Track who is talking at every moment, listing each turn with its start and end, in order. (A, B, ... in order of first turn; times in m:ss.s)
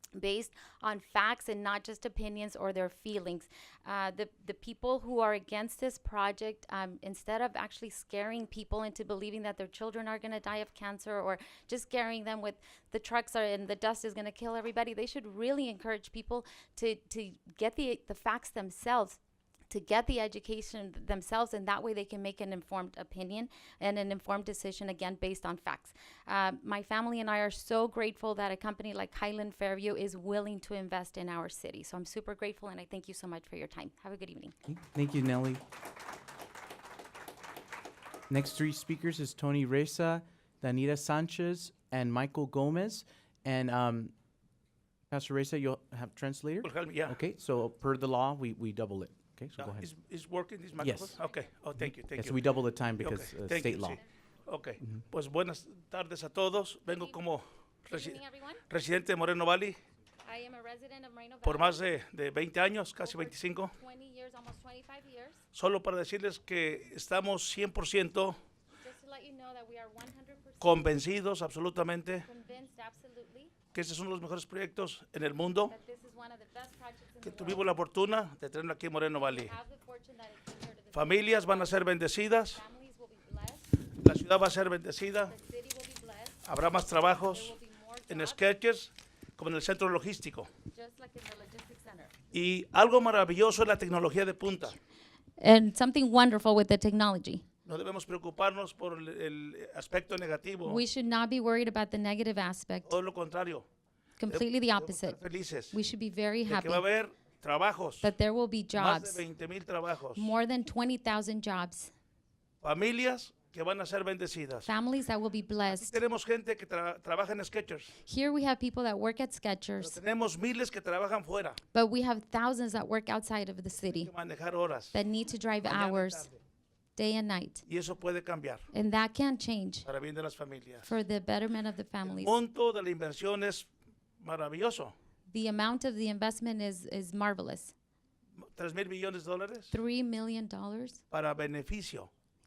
0:00.2-0:34.5 A
0:34.7-0:35.6 B
0:38.3-0:44.1 B
0:45.1-0:49.9 B
0:46.6-0:47.2 C
0:49.6-0:52.4 C
0:50.8-0:51.1 B
0:51.2-0:51.5 A
0:51.8-0:54.0 B
0:53.0-0:59.8 C
0:56.8-0:57.2 A
0:57.9-0:58.6 A
1:00.2-1:01.9 A
1:01.4-1:03.7 C
1:03.0-1:05.4 A
1:05.5-1:08.4 C
1:08.8-1:11.0 A
1:10.6-1:12.2 C
1:12.2-1:13.6 A
1:13.7-1:15.8 C
1:15.6-1:17.8 A
1:17.2-1:19.5 C
1:19.1-1:23.8 A
1:20.9-1:22.6 C
1:23.9-1:25.4 C
1:25.2-1:26.5 A
1:26.4-1:27.6 C
1:27.1-1:28.5 A
1:28.1-1:30.5 C
1:30.7-1:32.2 A
1:32.3-1:34.8 C
1:35.4-1:37.5 A
1:37.7-1:40.8 C
1:40.6-1:43.0 A
1:42.9-1:43.7 C
1:44.2-1:46.8 A
1:44.3-1:45.8 C
1:46.4-1:48.1 C
1:48.0-1:49.3 A
1:48.7-1:50.4 C
1:50.1-1:51.9 A
1:52.6-1:54.7 C
1:54.7-1:56.0 A
1:55.7-1:57.9 C
1:58.0-2:00.0 A
1:59.8-2:01.6 C
2:01.7-2:04.1 A
2:03.9-2:05.0 C
2:04.9-2:06.3 A
2:05.6-2:06.4 C
2:07.0-2:07.7 A
2:07.7-2:08.7 C
2:08.7-2:09.9 A
2:09.8-2:11.0 C
2:10.8-2:12.3 A
2:12.0-2:13.7 C
2:14.2-2:14.9 C
2:15.3-2:17.7 A
2:18.4-2:19.8 C
2:19.7-2:21.0 A
2:21.1-2:22.1 C